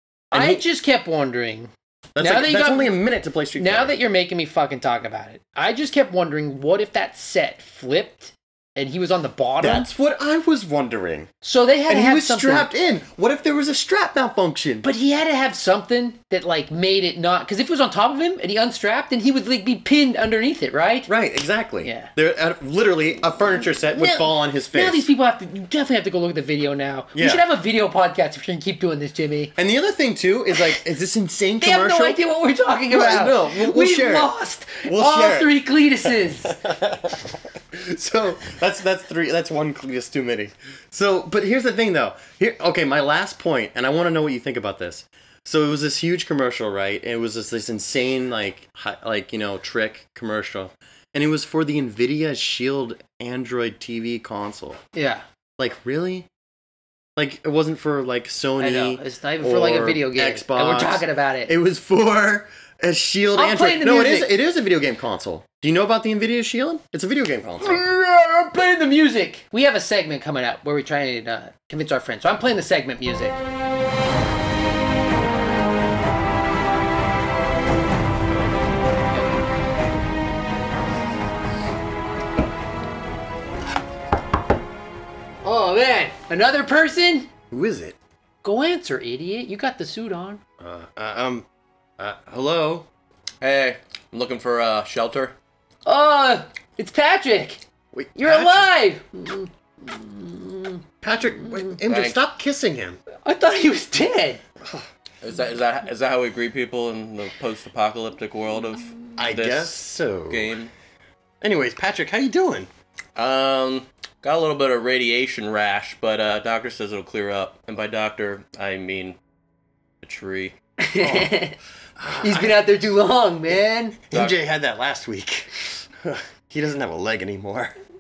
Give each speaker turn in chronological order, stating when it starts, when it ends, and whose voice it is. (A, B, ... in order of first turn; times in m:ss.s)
0:00.3-0:00.6 A
0:00.3-0:03.0 B
0:02.2-0:04.0 A
0:03.6-0:09.9 B
0:09.6-0:11.3 A
0:11.4-0:12.7 B
0:11.9-0:14.8 A
0:14.8-0:21.1 B
0:21.1-0:25.1 A
0:21.8-0:22.1 B
0:23.9-0:29.5 B
0:27.2-0:27.4 A
0:29.6-0:32.2 A
0:31.6-0:36.6 B
0:32.9-0:54.8 A
0:54.9-0:55.2 B
0:55.6-0:56.3 A
0:57.2-1:07.8 A
0:58.6-1:01.5 B
1:03.4-1:04.3 B
1:07.6-1:13.4 B
1:25.4-1:27.3 B
1:27.5-1:28.0 A
1:28.4-1:30.4 B
1:30.6-1:31.5 A
1:32.0-1:32.9 A
1:33.4-1:35.4 C
1:35.8-1:37.6 B
1:37.9-1:38.7 A
1:38.2-1:40.8 B
1:41.0-1:43.0 A
1:41.4-1:41.8 B
1:41.8-1:42.2 C
1:43.2-1:44.4 B
1:44.6-1:44.9 A
1:45.2-1:50.7 C
1:49.2-1:50.6 A
1:51.4-1:52.7 A
1:53.2-1:59.2 C
2:00.0-2:00.6 C
2:00.8-2:01.6 B
2:02.0-2:02.9 A
2:02.2-2:04.0 B
2:03.5-2:07.8 A